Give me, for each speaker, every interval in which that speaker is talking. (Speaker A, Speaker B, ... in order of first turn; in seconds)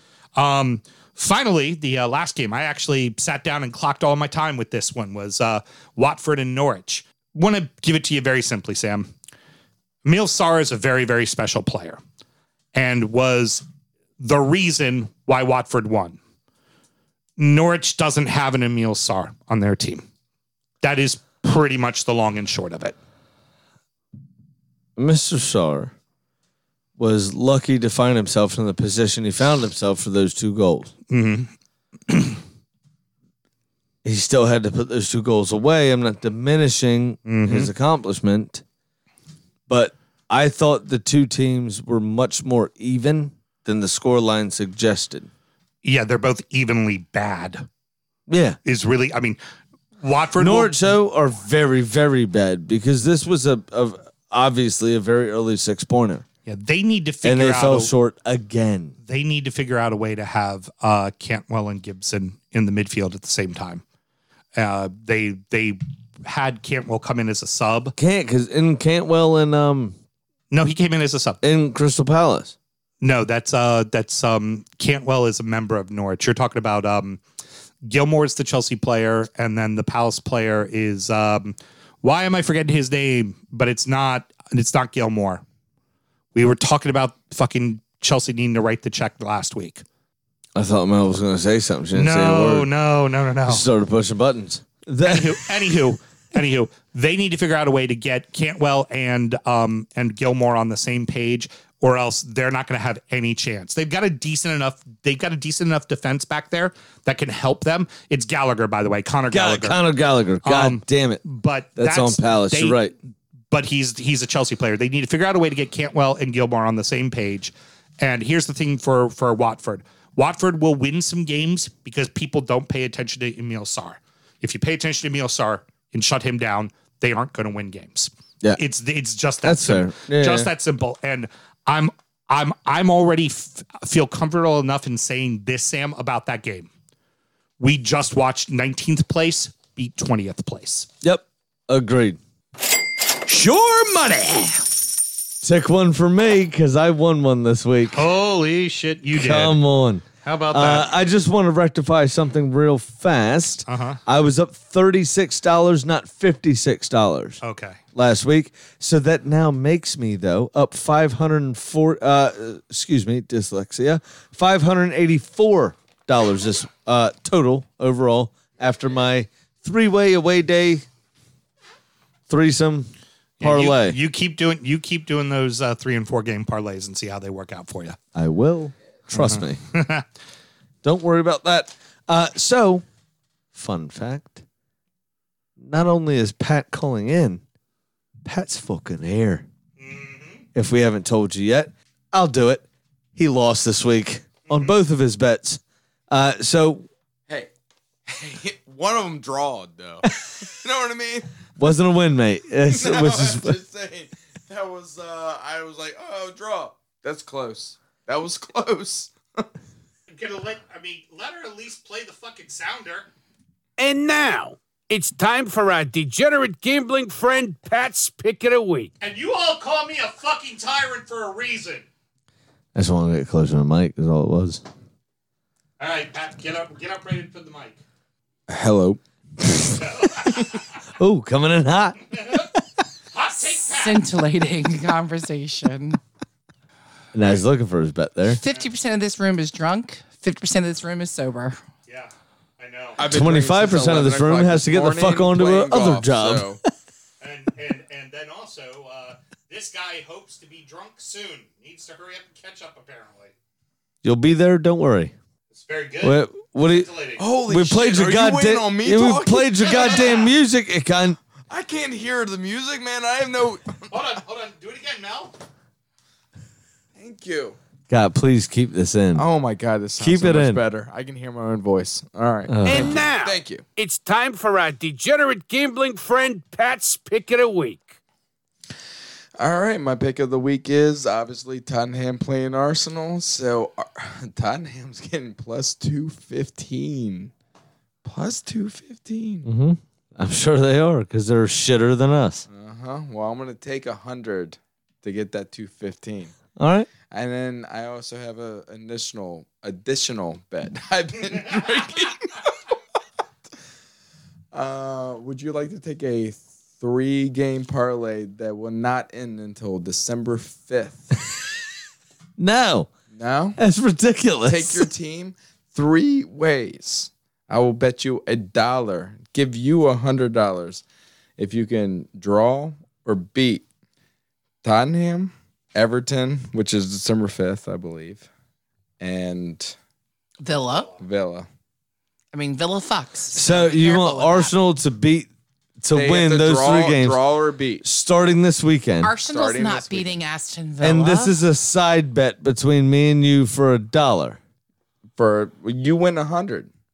Speaker A: 0.3-9.1, 10.0-12.0, 12.7-13.6, 14.2-16.2, 17.4-20.0, 20.8-22.9, 31.1-31.5, 32.1-32.4, 37.2-37.7, 45.8-47.6, 48.6-49.4, 50.0-50.7, 56.5-57.9, 59.0-63.8, 64.6-67.9, 70.5-71.4, 73.0-77.2, 77.8-85.4, 86.3-89.8, 91.9-93.6, 95.0-109.8, 110.4-112.8, 113.5-136.7, 137.6-140.9, 147.9-149.6, 150.2-150.9, 153.7-154.0, 157.4-157.8, 173.4-178.0, 179.1-180.0, 189.8-190.4, 210.1-213.1, 219.0-221.8, 225.8-227.8, 229.8-230.6, 232.2-232.5, 233.1-234.0, 241.9-243.0, 247.2-253.3, 255.5-257.2, 259.6-260.3, 263.9-265.3
Speaker B: 25.0-25.9, 27.0-30.9, 34.0-38.6, 39.7-45.3, 48.3-48.6, 50.4-56.2, 57.2-58.9, 68.0-70.0, 71.4-72.5, 90.5-92.7, 93.5-95.4, 109.3-111.2, 111.8-112.9, 129.4-130.5, 141.0-142.2, 145.4-148.1, 149.1-157.4, 157.9-170.8, 172.3-172.9, 173.4-174.0, 178.1-179.6, 180.8-182.8, 183.5-184.4, 185.6-187.4, 188.2-189.4, 190.5-192.6, 193.2-196.9, 201.6-203.6, 222.7-224.6, 231.0-232.4, 237.1-238.4, 243.0-246.6, 254.0-255.1, 256.0-256.9, 257.5-261.2, 267.9-269.2, 270.0-270.6, 272.5-273.0, 289.4-292.4, 296.6-296.9, 312.4-312.9, 313.6-314.9, 333.3-335.3, 335.8-337.2, 337.8-339.1, 340.8-344.4
Speaker C: 143.2-144.7, 213.8-218.9, 272.6-277.9
Speaker D: 198.1-201.3, 202.7-209.4, 228.5-229.0, 243.0-246.6, 257.2-260.1, 261.5-263.9, 266.9-267.6, 269.1-273.6, 279.4-287.3, 288.0-289.5, 292.5-296.3, 297.0-302.5, 304.5-311.3, 313.1-313.6, 314.4-320.8, 321.4-323.6, 324.6-328.3, 329.0-329.7, 331.0-331.5, 335.9-337.8, 339.2-340.1, 345.2-346.7
Speaker E: 233.7-236.0, 238.4-241.6, 330.4-330.9, 332.3-334.5, 339.0-341.4